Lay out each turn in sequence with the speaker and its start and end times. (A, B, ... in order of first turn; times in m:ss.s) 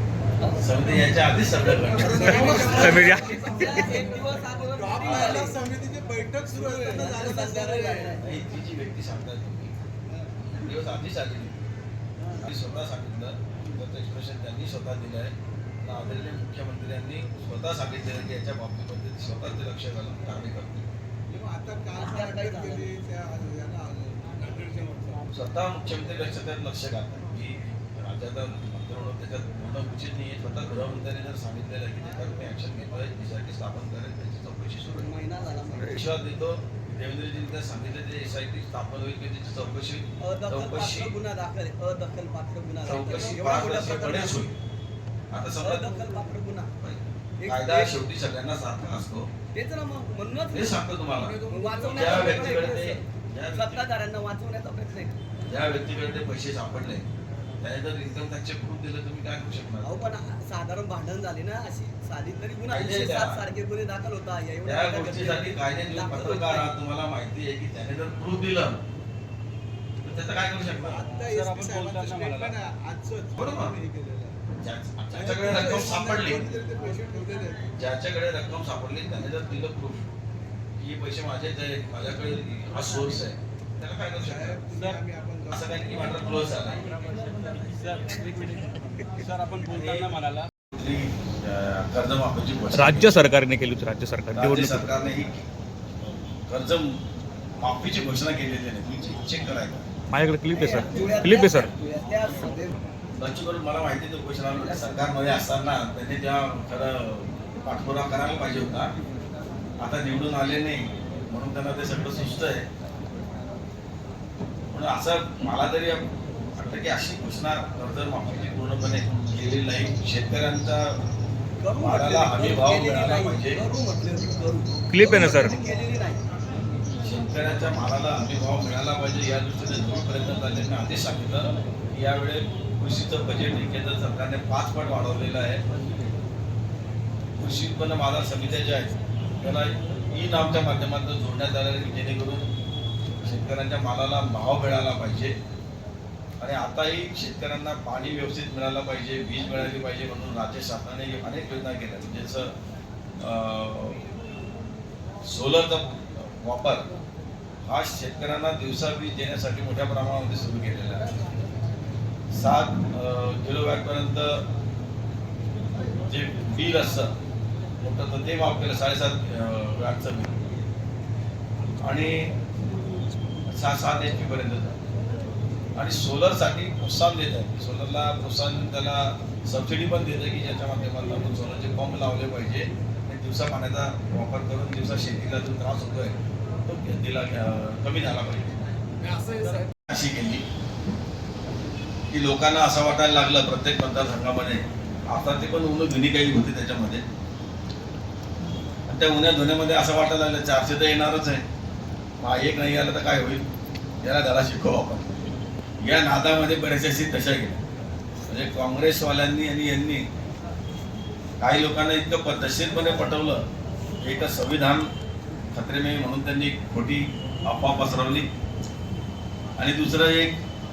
0:00.4-0:00.7 A
0:00.6-0:03.1 B
0:01.8-0:05.6 A
0:01.9-0:05.6 C
0:02.0-0:04.2 D
0:02.0-0:04.0 E
0:05.0-0:05.4 B
0:05.0-0:08.2 D
0:06.5-0:08.3 A
0:08.2-0:09.7 B
0:10.4-0:11.6 B
0:12.4-0:20.9 B
0:21.3-0:25.2 D
0:21.9-0:22.9 A
0:25.3-0:35.1 B
0:34.9-0:36.1 A
0:35.8-0:36.0 E
0:35.8-0:41.2 B
0:40.2-0:44.5 A
0:42.8-0:44.5 B
0:45.3-0:46.2 B
0:45.6-0:46.7 A
0:46.8-0:49.3 B
0:47.4-0:48.0 A
0:49.5-0:50.9 A
0:50.5-0:51.4 B
0:51.2-0:52.9 C
0:51.5-0:55.2 A
0:51.9-0:53.8 B
0:55.5-0:57.1 B
0:57.6-0:59.9 B
0:59.8-1:06.7 A
1:02.7-1:03.4 B
1:04.6-1:08.8 B
1:10.0-1:11.1 B
1:10.8-1:14.4 D
1:11.1-1:12.5 C
1:13.4-1:13.7 B
1:14.6-1:16.5 B
1:15.1-1:17.7 D
1:17.7-1:20.0 B
1:20.8-1:24.7 B
1:24.2-1:26.2 D
1:24.7-1:25.0 C
1:25.5-1:26.8 B
1:27.0-1:30.5 C
1:30.7-1:33.2 B
1:32.7-1:34.9 E
1:34.3-1:35.4 B
1:36.0-1:37.0 B
1:37.6-1:39.8 B
1:40.1-1:41.7 E
1:40.5-1:42.7 A
1:43.1-1:48.9 B
1:44.7-1:44.9 A
1:49.8-1:52.7 B
1:54.7-2:00.8 B
2:01.6-2:06.2 A
2:01.8-2:03.6 B
2:04.9-2:05.5 E
2:05.0-2:05.5 B
2:07.0-2:15.6 B
2:17.4-2:22.5 B
2:23.2-2:25.4 B
2:26.4-2:32.5 B
2:33.2-2:34.0 B
2:35.2-2:36.8 B
2:37.6-2:41.2 B
2:42.3-2:44.4 B
2:46.0-2:47.1 B
2:47.8-2:50.5 B
2:51.8-2:52.3 B
2:53.5-2:54.8 B
2:55.7-3:08.7 B
3:09.0-3:09.7 C
3:09.9-3:10.4 B
3:12.1-3:17.0 B
3:18.9-3:21.4 B
3:22.2-3:23.4 B
3:24.0-3:25.1 B
3:25.8-3:27.6 B
3:28.3-3:30.0 B
3:31.4-3:33.4 B
3:34.0-3:34.9 B
3:35.5-3:38.3 B
3:39.6-3:40.4 B